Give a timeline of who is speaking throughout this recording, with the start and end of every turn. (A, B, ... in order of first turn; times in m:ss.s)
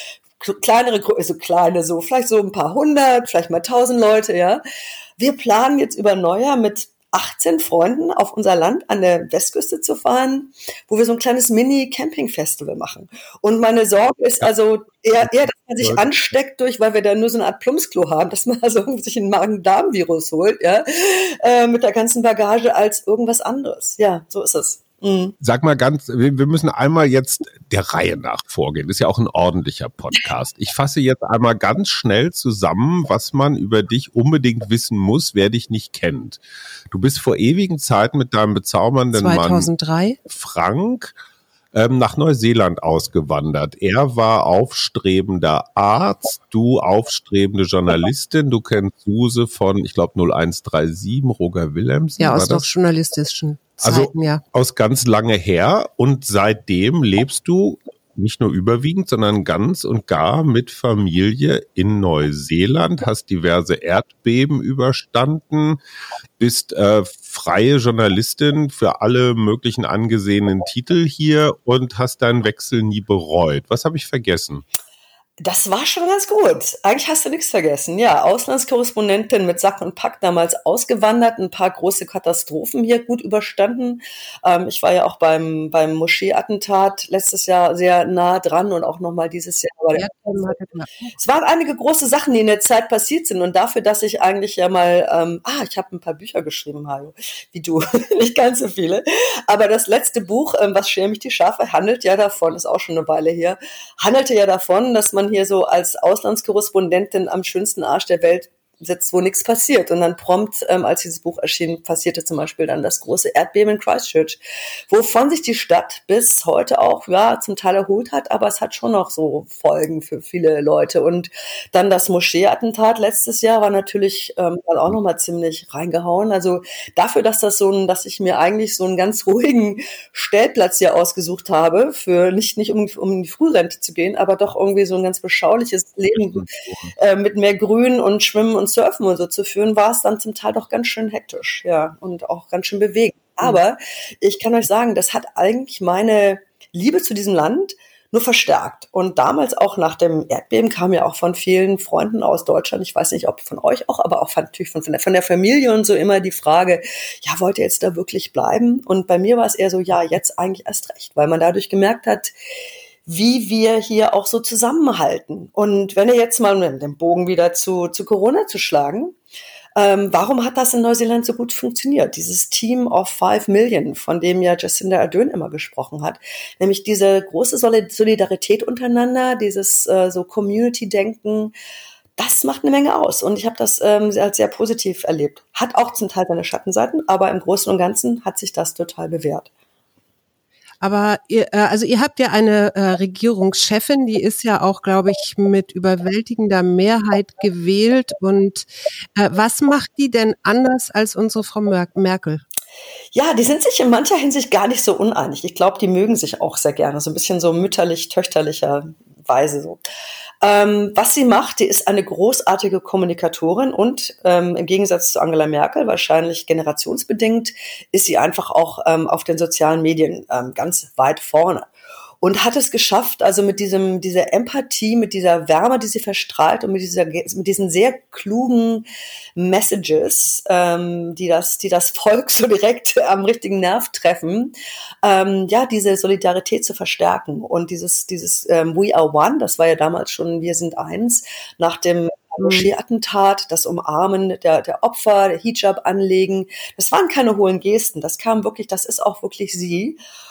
0:00.4-0:04.6 A
0:05.2-0:25.4 A
0:15.2-0:16.1 B
0:25.4-0:39.7 B
0:39.1-0:40.2 C
0:40.3-0:41.2 B
0:41.7-0:52.7 B
0:52.2-0:54.4 C
0:53.8-1:05.8 B
1:06.4-1:14.6 B
1:15.4-1:30.6 A
1:30.0-1:31.1 C
1:31.2-1:54.4 A
1:54.9-2:42.3 A
2:16.2-2:16.9 B
2:43.1-2:49.2 A
2:49.8-3:01.5 A
3:02.2-3:09.5 A
3:10.8-3:22.4 C
3:23.1-3:29.8 A
3:30.4-3:41.7 A
3:42.2-4:10.0 A
4:02.4-4:02.7 C